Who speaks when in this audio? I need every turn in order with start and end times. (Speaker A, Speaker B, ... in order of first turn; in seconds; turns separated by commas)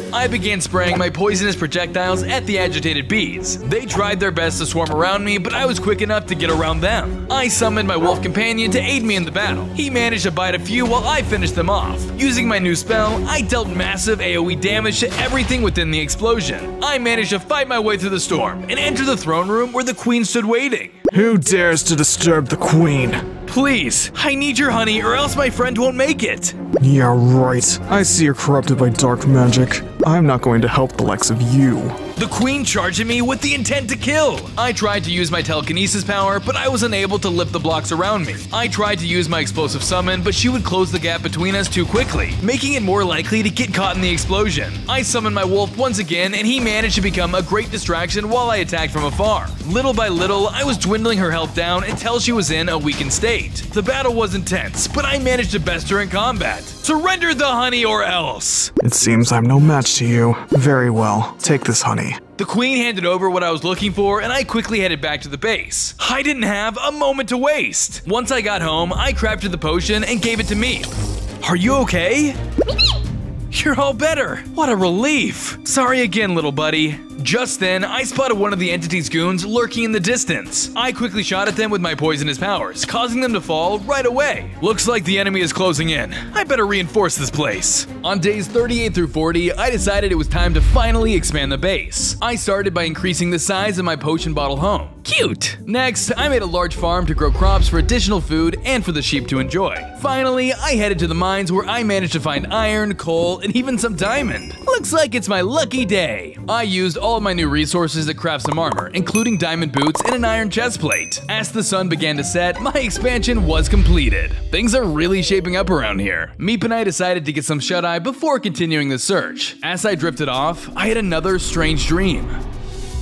Speaker A: 0.1-21.0, Speaker B: 21.1-23.3, Speaker A: 23.5-26.6, Speaker B: 26.8-32.0, Speaker A: 32.1-58.7, Speaker B: 58.8-62.2, Speaker A: 62.4-70.9, Speaker A: 71.4-72.4, Speaker A: 73.5-122.4